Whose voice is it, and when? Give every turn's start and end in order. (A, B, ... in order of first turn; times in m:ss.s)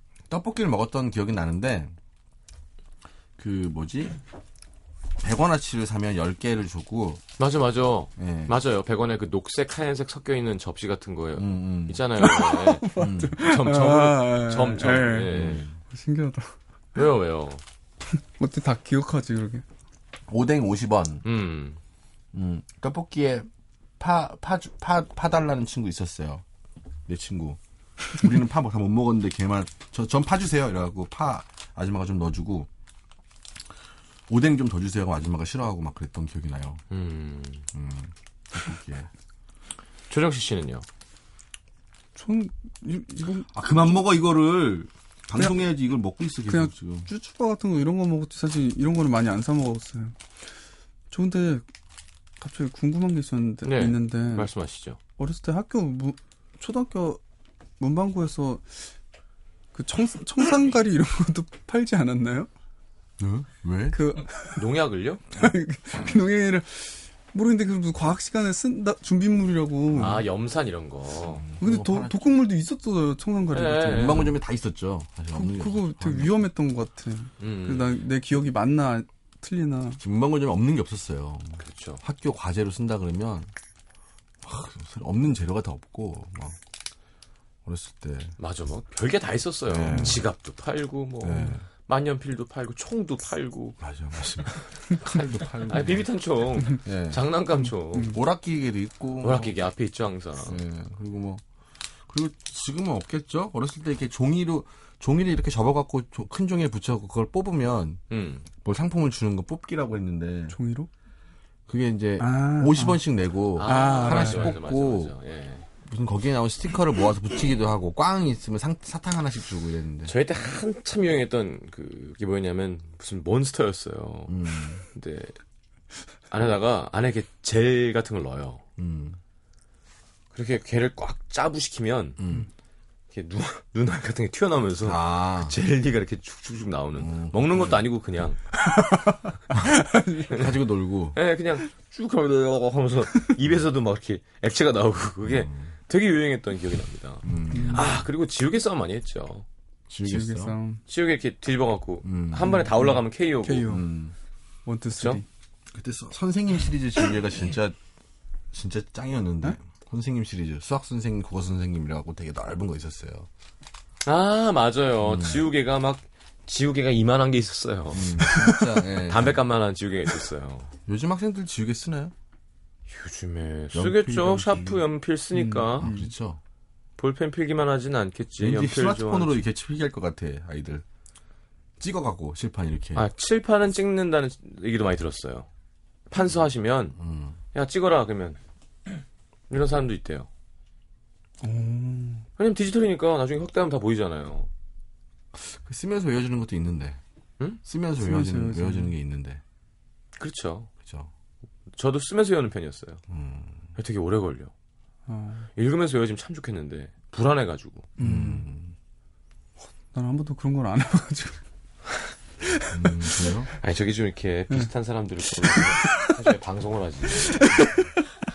0:00.3-0:01.9 A
0:03.4-0:04.2 A
0:05.2-0:07.2 A
0:07.4-0:15.7 B
0:08.2-0:08.6 A
0:11.4-0:12.1 A
0:12.2-0:15.4 C
0:13.0-0:13.4 A
0:15.3-0:15.8 A
0:15.9-0:16.6 C
0:17.0-0:17.6 B
0:18.4-0:19.6 C
0:20.3-0:21.2 A
0:21.2-0:21.8 B
0:22.3-0:23.5 A
0:24.0-0:26.4 A
0:27.1-0:27.6 A
0:28.2-0:32.7 A
0:34.3-0:36.8 A
0:36.9-0:37.7 B
0:37.7-0:39.1 A
0:40.1-0:40.9 B
0:42.2-0:43.5 C
0:43.5-0:47.1 A
0:46.5-0:50.2 C
0:51.1-0:51.7 C
0:52.4-0:54.5 C
0:53.6-0:55.0 B
0:55.2-0:57.2 C
0:57.8-0:58.9 C
0:59.7-1:02.5 C
1:03.2-1:04.1 A
1:03.9-1:04.6 C
1:04.6-1:05.2 B
1:05.3-1:10.2 C
1:09.9-1:10.2 A
1:10.0-1:11.4 B
1:11.2-1:12.2 A
1:11.6-1:14.3 C
1:13.5-1:14.3 B
1:13.9-1:16.4 A
1:15.3-1:20.0 C
1:17.4-1:18.0 B
1:20.0-1:23.5 A
1:21.6-1:22.0 B
1:24.4-1:26.6 A
1:27.7-1:28.4 A
1:28.4-1:33.8 B
1:29.7-1:30.2 A
1:31.2-1:31.6 A
1:33.8-1:36.1 A
1:35.6-1:38.2 B
1:36.7-1:37.2 A
1:38.0-1:39.6 A
1:39.2-1:40.6 B
1:40.4-1:41.4 A
1:42.1-1:48.0 A
1:48.1-1:48.5 B
1:48.6-1:50.6 A
1:50.5-1:50.9 C
1:51.7-1:55.1 A
1:52.2-1:53.0 C
1:53.6-1:55.6 B
1:53.6-1:54.6 C
1:55.8-2:00.2 A
2:00.1-2:05.4 B
2:04.3-2:04.8 A
2:06.3-2:08.6 B
2:08.8-2:09.2 A
2:10.3-2:12.3 B
2:12.2-2:12.5 A
2:13.1-2:18.4 B
2:14.8-2:15.6 A
2:17.0-2:17.8 A
2:18.7-2:20.3 C
2:19.5-2:21.2 A
2:21.2-2:29.4 B
2:25.2-2:25.7 A
2:27.2-2:28.0 A
2:27.5-2:27.9 C
2:29.9-2:30.6 A
2:30.0-2:30.8 C
2:30.9-2:33.8 B
2:32.0-2:32.9 A
2:32.5-2:33.8 C
2:33.7-2:34.2 A
2:34.7-2:35.3 C
2:35.0-2:35.2 B
2:35.7-2:37.8 A
2:38.5-2:43.3 A
2:44.1-2:50.7 B
2:45.0-2:45.5 A
2:47.9-2:49.4 A
2:50.9-2:52.1 A
2:52.9-2:55.9 B
2:53.7-2:54.8 A
2:55.3-2:56.1 C
2:55.8-2:56.4 A
2:57.0-2:59.4 B
2:58.4-3:00.8 A
3:01.8-3:03.0 A
3:03.0-3:05.5 B
3:06.1-3:07.0 B
3:07.0-3:07.4 A
3:07.5-3:08.4 B
3:09.5-3:10.3 B
3:11.4-3:12.3 C
3:12.4-3:14.5 B
3:15.3-3:17.0 A
3:17.6-3:19.4 A
3:18.0-3:18.9 C
3:20.2-3:20.7 B
3:20.8-3:21.1 A
3:21.7-3:23.0 B
3:23.1-3:23.6 A
3:23.8-3:24.5 B
3:25.1-3:25.5 C
3:25.6-3:27.9 B
3:28.0-3:28.5 C
3:28.0-3:28.8 A
3:29.8-3:31.4 C
3:32.7-3:33.5 A
3:33.6-3:37.6 B
3:35.8-3:36.1 C
3:37.2-3:37.8 C